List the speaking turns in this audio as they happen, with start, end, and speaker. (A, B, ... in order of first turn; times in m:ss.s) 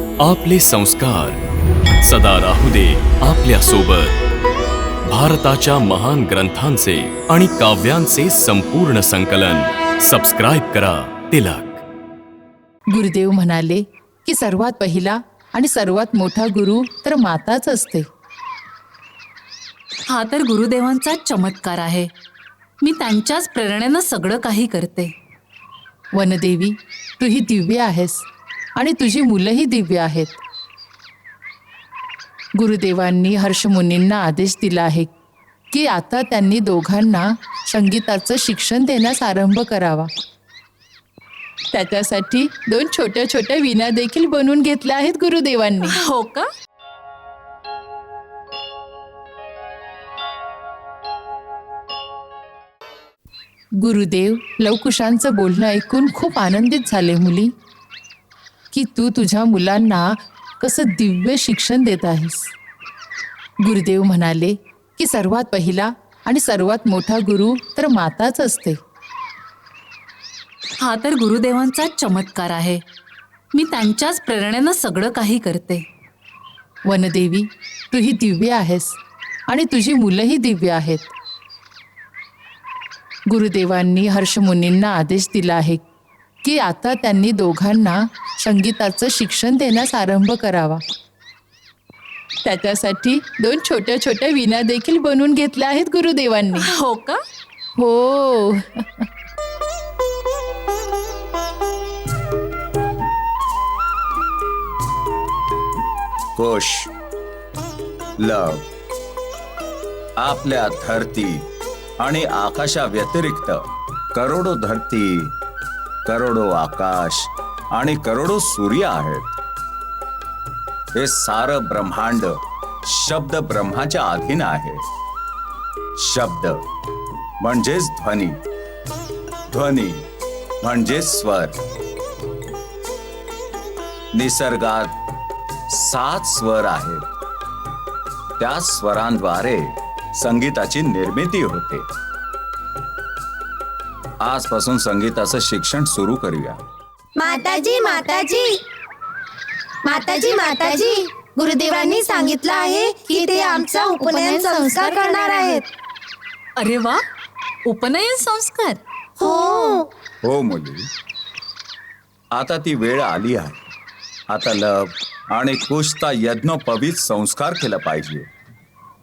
0:00.2-0:01.4 A
0:02.0-0:04.2 A
0:05.1-0:11.8 A
0:12.9-0:18.1 B
0:20.1-0:22.1 C
0:22.8-0:25.1 C
0:26.1-0:30.4 B
0:32.6-0:35.1 B
0:35.7-0:40.1 B
0:41.7-0:46.0 B
0:45.9-0:46.4 C
0:53.8-0:57.5 B
0:58.7-1:02.5 B
1:03.6-1:08.8 B
1:10.8-1:12.8 C
1:13.5-1:15.8 C
1:16.9-1:21.1 B
1:23.3-1:25.8 B
1:26.4-1:30.8 B
1:32.4-1:36.7 B
1:36.6-1:37.2 C
1:37.8-1:39.0 B
1:46.4-1:46.9 D
1:48.2-1:48.7 D
1:50.2-1:51.4 D
1:52.0-1:55.3 D
1:56.0-1:59.2 D
2:01.0-2:04.8 D
2:06.0-2:06.6 D
2:07.4-2:08.4 D
2:09.5-2:10.0 D
2:10.6-2:11.6 D
2:14.1-2:15.0 D
2:15.7-2:17.0 D
2:18.4-2:21.8 D
2:24.2-2:26.6 D
2:27.2-2:28.5 E
2:29.9-2:35.6 E
2:34.0-2:35.4 B
2:36.6-2:37.0 C
2:37.7-2:38.8 C
2:39.2-2:39.9 E
2:40.2-2:40.9 D
2:42.3-2:43.6 D
2:44.3-2:48.3 D